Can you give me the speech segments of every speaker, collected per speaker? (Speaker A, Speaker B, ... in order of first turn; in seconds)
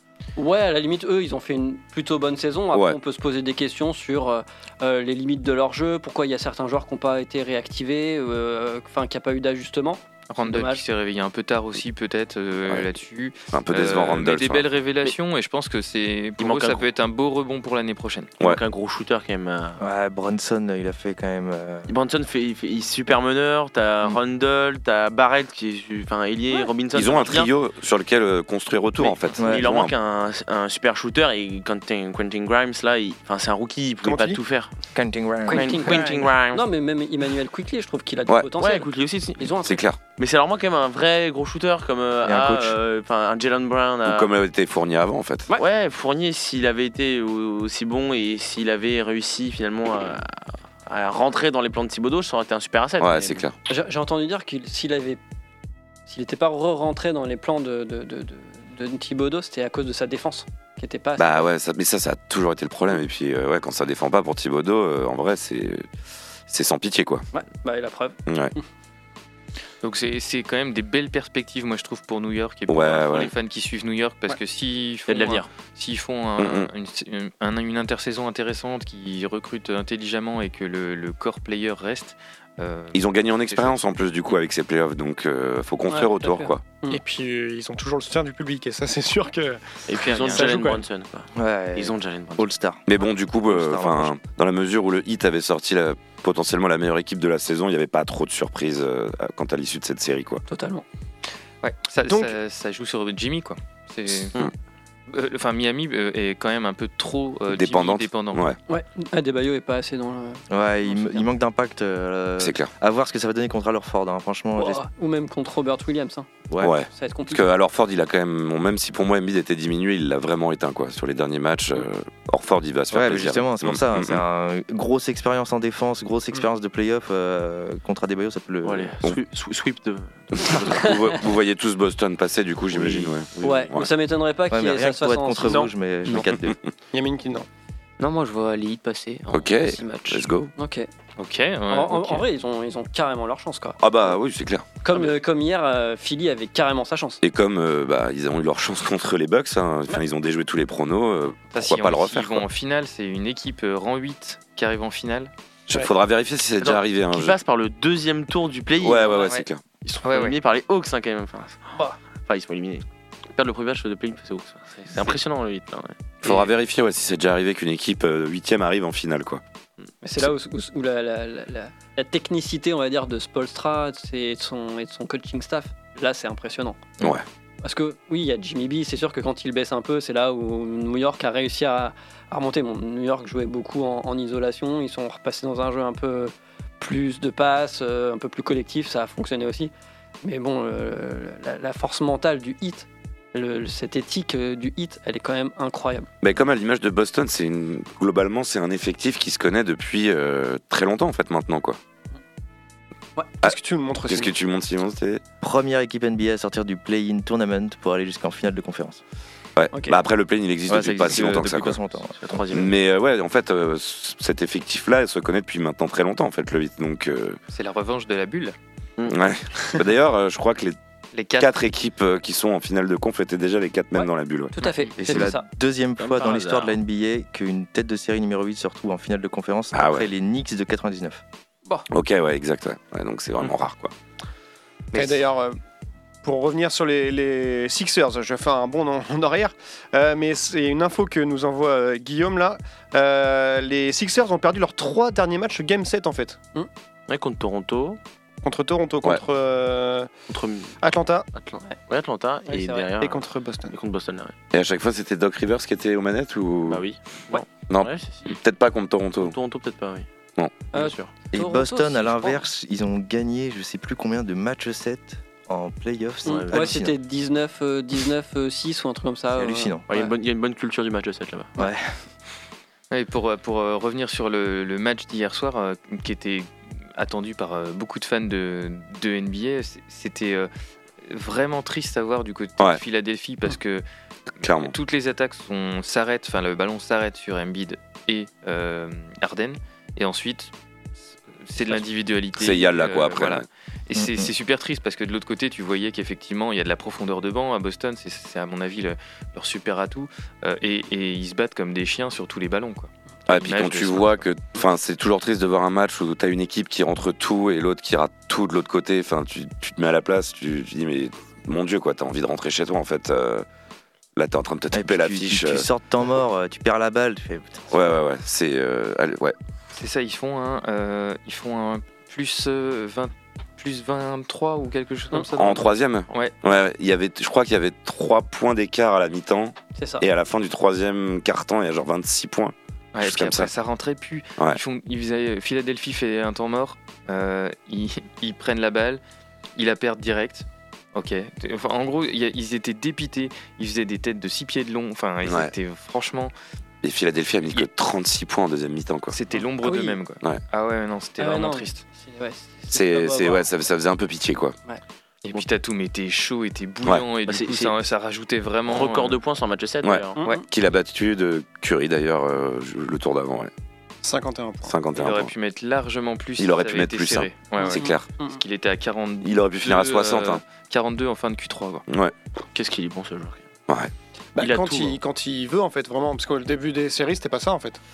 Speaker A: 0.4-10.8, 35.5-39.8, 53.7-55.2, 56.1-61.4, 67.3-68.6, 85.9-87.0, 100.5-100.8, 108.7-111.2, 114.5-116.3, 116.9-117.4, 133.4-135.6, 140.6-140.9, 141.7-143.8, 144.8-147.2, 170.0-176.8, 177.6-189.7, 190.2-196.1, 209.7-210.0, 224.5-225.4, 252.5-252.8, 260.7-262.4, 266.2-270.1, 329.8-330.1, 349.6-350.0, 351.2-353.4, 360.2-360.4, 367.6-368.4
Speaker B: 2.7-3.0, 13.5-14.7, 26.9-29.9, 39.6-40.0, 44.0-45.5, 53.0-53.5, 61.2-65.9, 66.5-67.2, 68.2-68.5, 72.7-73.3, 76.4-76.7, 82.9-86.6, 92.8-100.4, 107.5-108.6, 112.4-112.7, 116.6-124.2, 130.4-133.9, 136.1-136.6, 139.3-140.5, 143.8-144.6, 147.2-152.4, 155.7-157.4, 158.8-159.6, 166.2-169.4, 196.2-201.8, 203.4-205.2, 209.6-211.8, 212.5-217.4, 219.1-220.8, 221.4-224.5, 229.7-230.1, 231.9-233.9, 254.5-256.8, 257.7-259.3, 284.4-284.7, 292.4-293.4, 303.3-313.4, 314.1-315.6, 317.7-319.3, 325.3-333.5, 345.2-345.5, 346.8-349.1, 352.7-354.6, 359.8-363.5, 364.6-365.3, 366.4-368.1, 369.2-370.4, 371.9-372.1
Speaker C: 10.3-18.3, 69.8-83.8, 89.9-90.6, 101.6-104.3, 105.1-108.4, 141.2-142.2, 151.5-155.3, 159.1-159.4, 160.0-160.4, 217.5-218.6, 221.1-221.5, 272.9-280.5, 281.0-283.8, 284.6-290.5, 291.4-304.2, 319.7-326.3, 332.9-339.0, 339.6-346.3, 349.1-351.8, 355.2-359.2, 364.9-371.8
Speaker D: 16.4-16.8, 18.4-19.8, 21.9-27.5, 28.9-34.7, 35.5-36.6, 38.5-39.5, 40.1-44.3, 45.5-53.4, 75.1-75.5, 89.9-92.5, 128.6-131.2, 132.7-133.8, 156.6-161.6, 162.2-162.8, 163.3-166.5, 212.2-212.8, 226.0-226.8, 247.1-248.0, 250.3-250.8, 251.3-254.3, 256.7-258.4, 259.2-260.1, 260.7-261.1, 266.2-266.6, 269.9-271.5, 357.2-357.8, 358.7-360.2, 372.5-373.5, 374.4-375.0
Speaker E: 19.8-21.9, 29.4-29.7, 34.9-36.1, 42.2-42.8, 91.3-92.8, 93.5-94.2, 110.5-114.8, 122.9-128.9, 134.5-136.6, 205.4-209.0, 210.7-212.2, 225.0-231.2, 261.3-266.9, 269.3-269.8, 271.6-271.9, 293.9-294.3, 314.7-317.9
Speaker F: 34.0-34.4, 86.9-90.8, 102.0-102.3, 136.9-137.5, 203.4-204.3, 234.9-235.6, 236.2-246.4, 248.4-250.1, 250.8-251.3, 253.0-253.7, 364.0-364.8, 374.4-377.8
Speaker G: 138.0-140.2